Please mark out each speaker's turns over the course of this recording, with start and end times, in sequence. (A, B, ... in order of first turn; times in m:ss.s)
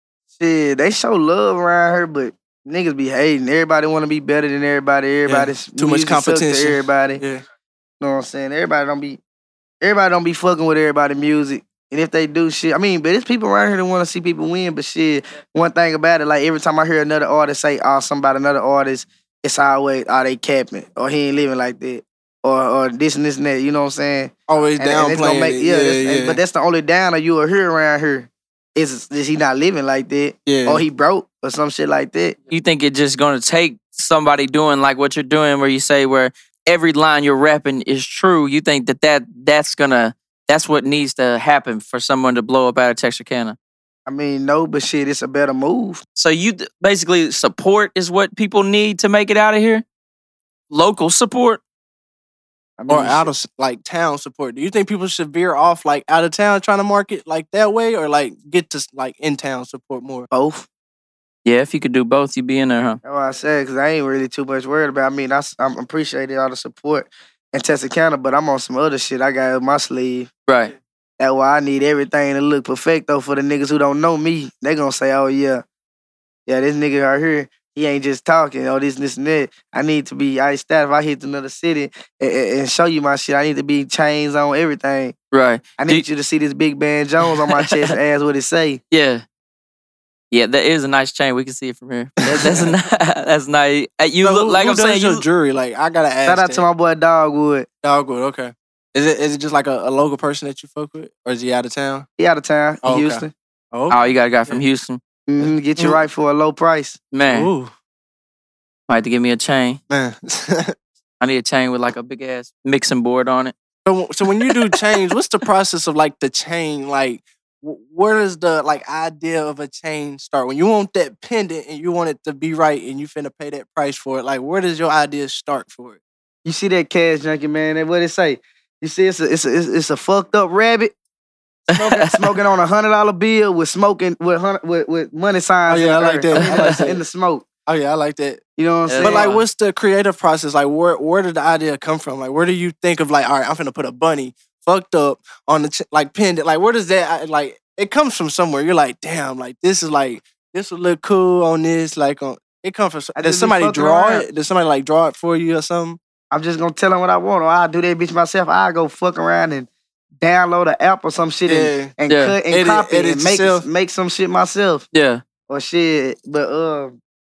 0:00.4-0:07.2 A
0:05.3-0:07.4 B
0:08.0-0:09.2 A
0:09.8-0:32.4 A
0:24.5-0:26.4 B
0:30.5-0:30.8 B
0:32.5-0:43.6 C
0:44.1-0:46.0 A
0:46.2-0:49.8 C
0:50.7-0:51.6 C
0:52.8-0:53.3 A
0:52.9-1:00.3 B
1:00.3-1:00.7 A
1:01.4-1:03.0 C
1:03.0-1:10.3 A
1:10.5-1:10.7 C
1:11.2-1:15.6 A
1:16.5-1:25.2 A
1:25.3-1:26.0 C
1:25.8-1:28.8 A
1:27.5-1:27.9 C
1:28.9-1:29.2 C
1:30.3-1:35.2 C
1:32.3-1:32.6 A
1:32.3-1:32.7 B
1:34.2-1:36.6 B
1:36.2-1:37.7 A
1:37.8-1:42.1 B
1:42.2-1:43.3 A
1:42.8-1:44.6 B
1:43.9-1:45.0 C
1:45.3-1:47.0 A
1:45.4-1:46.0 B
1:47.1-1:47.5 C
1:47.3-1:47.7 B
1:48.9-1:49.8 C
1:49.9-1:50.8 B
1:51.2-1:53.5 C
1:53.9-2:06.0 B
1:54.5-1:54.8 C
2:06.4-2:10.9 A
2:11.7-2:17.4 A
2:11.7-2:12.3 C
2:15.7-2:17.0 B
2:16.3-2:16.9 C
2:17.7-2:18.4 B
2:18.6-2:19.3 A
2:18.9-2:19.4 C
2:19.0-2:36.0 B
2:33.2-2:34.3 A
2:36.3-2:39.7 A
2:40.2-2:44.9 A
2:41.5-2:41.9 B
2:42.1-2:42.4 C
2:42.5-2:43.7 B
2:44.9-2:45.2 C
2:45.5-2:47.0 A